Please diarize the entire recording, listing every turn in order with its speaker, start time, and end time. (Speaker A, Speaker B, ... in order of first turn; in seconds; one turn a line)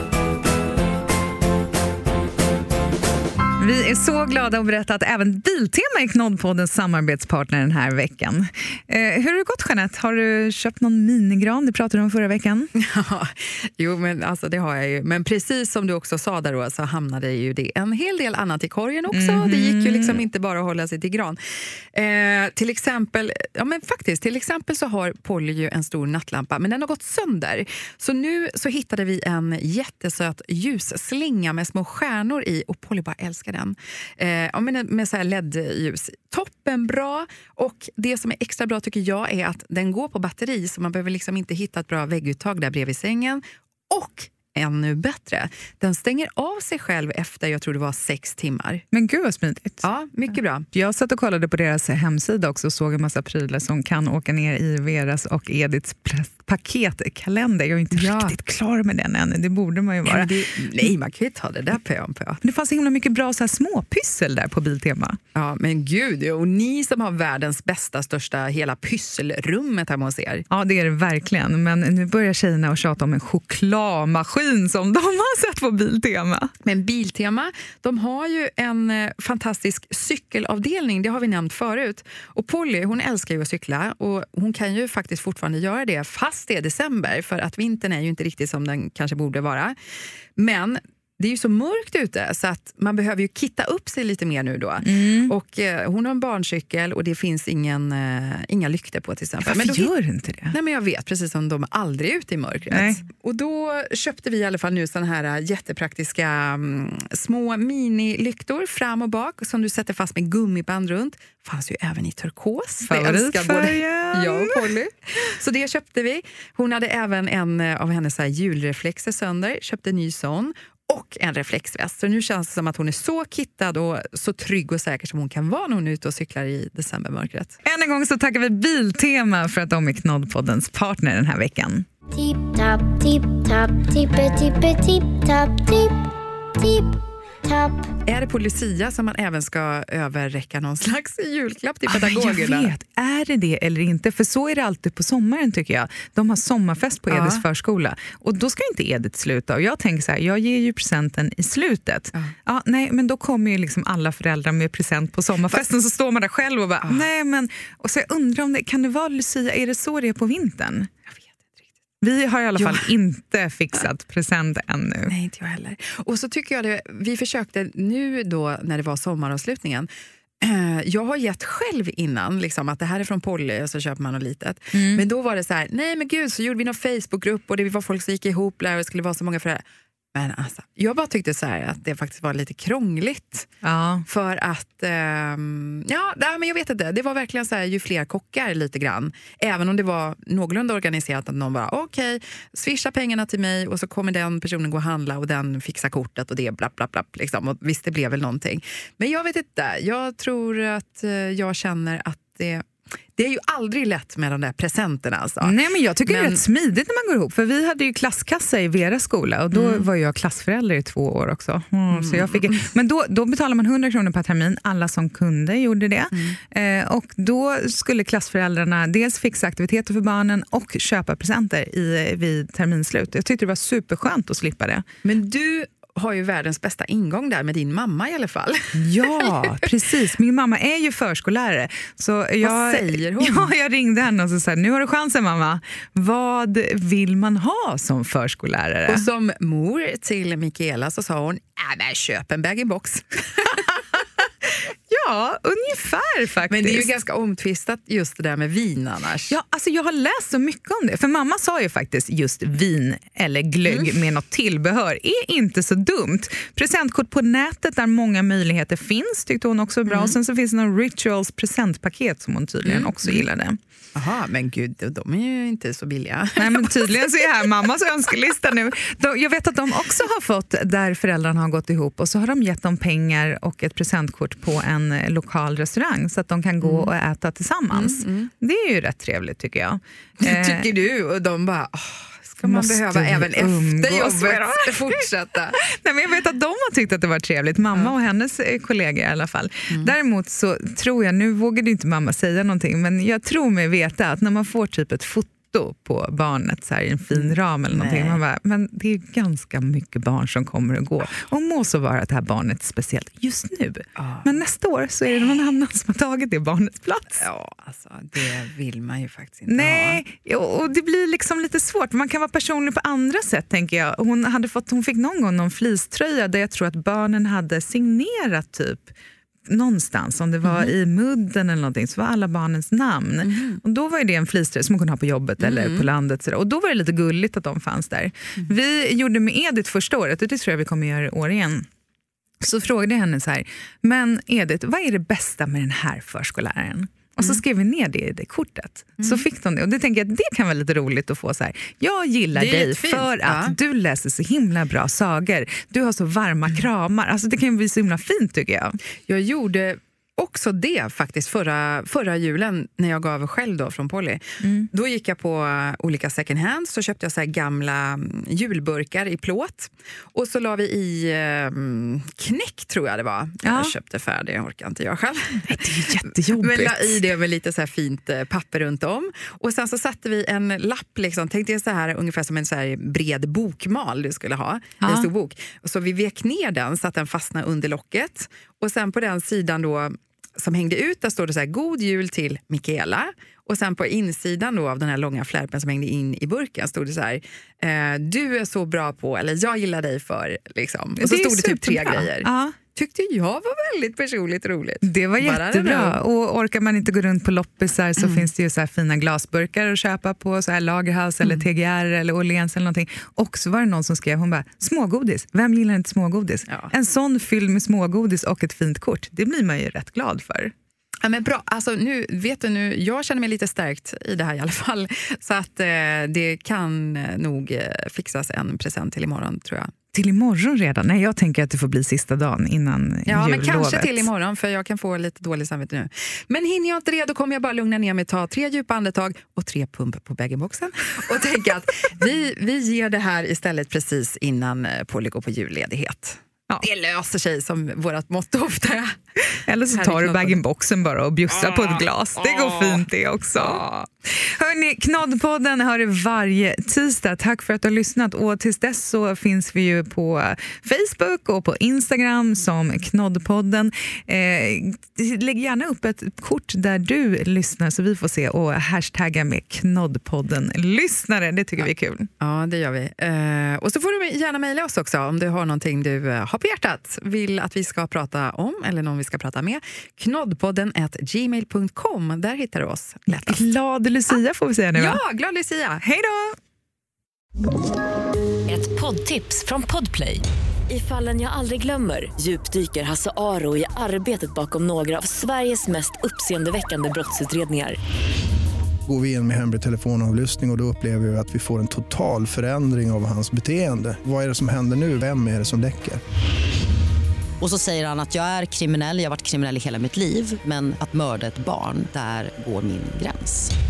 Speaker A: 3.6-12.7
Speaker B: 12.7-48.8
Speaker A: 19.1-20.2
Speaker A: 48.9-49.8
Speaker B: 49.8-50.7
Speaker A: 50.7-60.3
Speaker B: 57.9-58.4
Speaker B: 60.0-62.4
Speaker A: 62.4-65.2
Speaker B: 65.3-70.4
Speaker A: 70.5-76.5
Speaker B: 76.6-89.8
Speaker B: 90.3-99.9
Speaker A: 94.8-95.3
Speaker A: 99.4-100.5
Speaker B: 100.5-127.6
Speaker A: 102.7-103.0
Speaker A: 112.8-114.7
Speaker A: 127.6-131.8
Speaker C: 132.2-135.9
Speaker C: 137.4-137.8
Speaker B: 138.1-142.7
Speaker A: 141.9-160.9
Speaker B: 147.1-147.4
Speaker B: 161.2-161.4
Speaker A: 162.0-165.1
Speaker B: 162.6-162.9
Speaker B: 165.1-169.9
Speaker B: 170.4-183.5
Speaker A: 174.7-175.0
Speaker A: 183.6-184.0
Speaker B: 184.1-206.4
Speaker A: 205.4-224.8
Speaker B: 209.5-209.9
Speaker B: 211.9-212.7
Speaker B: 216.1-216.4
Speaker B: 225.0-229.6
Speaker A: 228.7-239.1
Speaker B: 232.4-233.5
Speaker B: 238.9-244.1
Speaker A: 244.9-246.9
Speaker B: 246.5-249.4
Speaker A: 249.3-263.6
Speaker B: 253.7-253.9
Speaker B: 259.9-260.1
Speaker B: 262.6-263.2
Speaker B: 263.9-267.5
Speaker A: 266.4-280.6
Speaker B: 276.6-276.9
Speaker B: 277.7-278.3
Speaker B: 280.2-285.6
Speaker A: 282.4-285.0
Speaker A: 285.6-307.2
Speaker B: 297.1-298.2
Speaker B: 303.9-304.3
Speaker B: 307.1-310.0
Speaker A: 309.5-318.9
Speaker A: 319.5-331.7
Speaker B: 320.4-320.7
Speaker B: 323.2-323.6
Speaker B: 325.4-325.9
Speaker A: 332.4-348.8
Speaker B: 339.0-339.2
Speaker B: 342.3-343.5
Speaker B: 349.1-396.0
Speaker A: 354.4-354.7
Speaker A: 363.4-363.7
Speaker A: 365.4-367.0
Speaker A: 374.8-375.1
Speaker A: 391.0-392.6
Speaker A: 394.8-410.5
Speaker B: 398.0-398.3
Speaker B: 411.0-419.7
Speaker A: 419.9-424.1
Speaker B: 423.1-439.0
Speaker A: 439.4-443.6
Speaker B: 439.7-440.4
Speaker B: 441.3-443.9
Speaker A: 444.1-462.1
Speaker B: 462.2-473.4
Speaker A: 473.1-475.0
Speaker B: 474.7-475.8
Speaker A: 475.8-476.4
Speaker D: 478.4-487.8
Speaker E: 488.9-496.0
Speaker F: 497.4-503.5